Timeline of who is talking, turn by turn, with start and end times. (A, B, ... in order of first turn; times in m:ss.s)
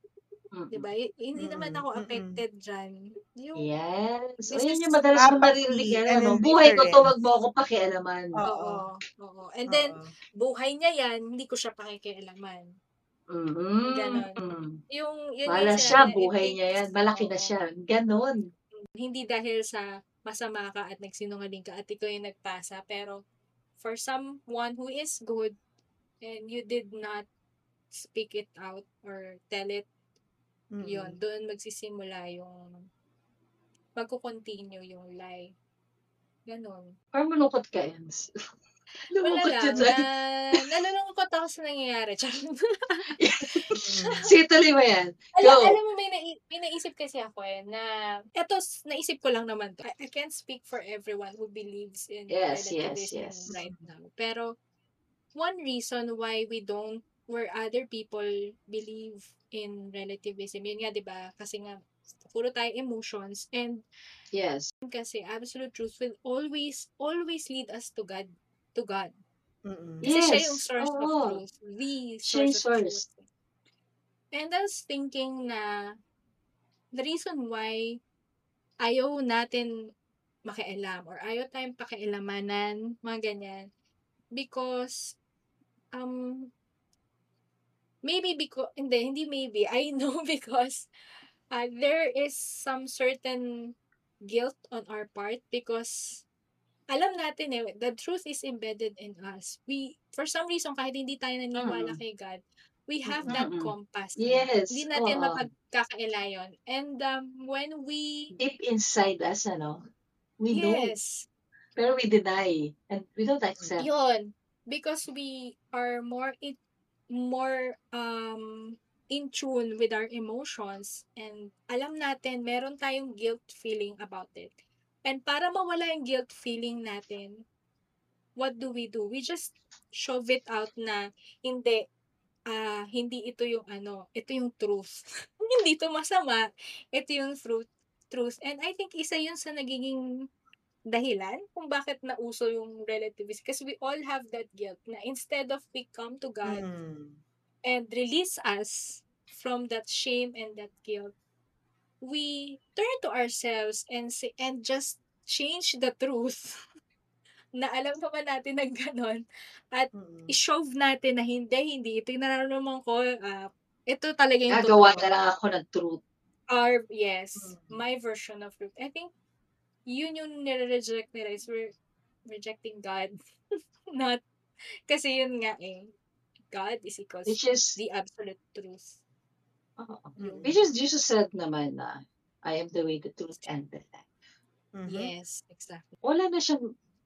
0:00.5-0:00.9 A
0:00.7-0:03.6 B
0:01.4-0:02.4 C
0:03.6-0:08.4 A
0:04.5-0:05.0 B
0:05.2-0:07.1 C
0:08.4-0:08.8 C
0:08.5-0:12.7 B
0:09.7-0:10.1 C
0:13.3-0:14.8 A
0:13.8-0:14.4 B
0:14.9-0:17.5 B
0:15.5-0:18.4 A
0:19.0-0:23.2 B
0:23.8-0:25.6 B
0:26.2-0:27.3 B
0:27.9-0:29.9 B
0:30.7-0:31.2 C
0:30.8-0:32.6 B
0:34.0-0:35.5 B
0:36.5-0:36.9 B
0:37.1-0:38.3 A
0:39.1-0:40.0 A
0:39.2-0:44.1 B
0:43.2-0:45.8 A
0:43.8-0:44.3 C
0:45.4-0:54.5 B
0:52.3-0:53.5 A
0:53.5-0:53.8 C
0:55.4-1:03.8 B
1:04.3-1:04.7 A
1:04.8-1:09.2 B
1:09.6-1:10.1 C
1:10.0-1:11.4 A
1:10.0-1:13.3 B
1:12.3-1:13.0 A
1:14.3-1:15.7 B
1:17.0-1:18.0 B
1:18.8-1:19.7 B
1:20.5-1:23.7 B
1:24.4-1:25.2 B
1:26.0-1:26.5 B
1:28.0-1:30.9 B
1:31.5-1:33.7 B
1:34.3-1:36.2 B
1:36.9-1:48.3 B
1:41.6-1:42.0 A
1:43.1-1:43.4 C
1:43.3-1:45.4 A
1:48.3-1:49.8 A
1:50.4-1:50.9 A
1:50.5-1:51.3 B
1:51.8-1:53.9 A
1:53.8-1:56.6 B
1:57.2-2:04.5 B
2:05.1-2:07.4 B
2:08.4-2:11.8 B
2:12.5-2:20.0 B
2:20.9-2:26.6 B
2:26.4-2:27.2 C
2:27.7-2:31.1 B
2:32.0-2:36.5 B
2:37.6-2:45.1 B
2:39.9-2:40.3 C
2:44.5-2:46.0 A
2:46.5-2:49.1 B
2:47.4-2:47.8 C
2:49.9-2:51.7 B
2:52.3-2:53.2 B
2:53.9-2:54.2 B
2:54.9-2:55.9 B
2:56.5-2:59.0 B
2:57.3-2:57.8 A
2:59.8-3:04.1 A
3:00.2-3:00.6 C
3:04.8-3:05.1 C
3:04.9-3:06.0 B
3:06.0-3:06.7 A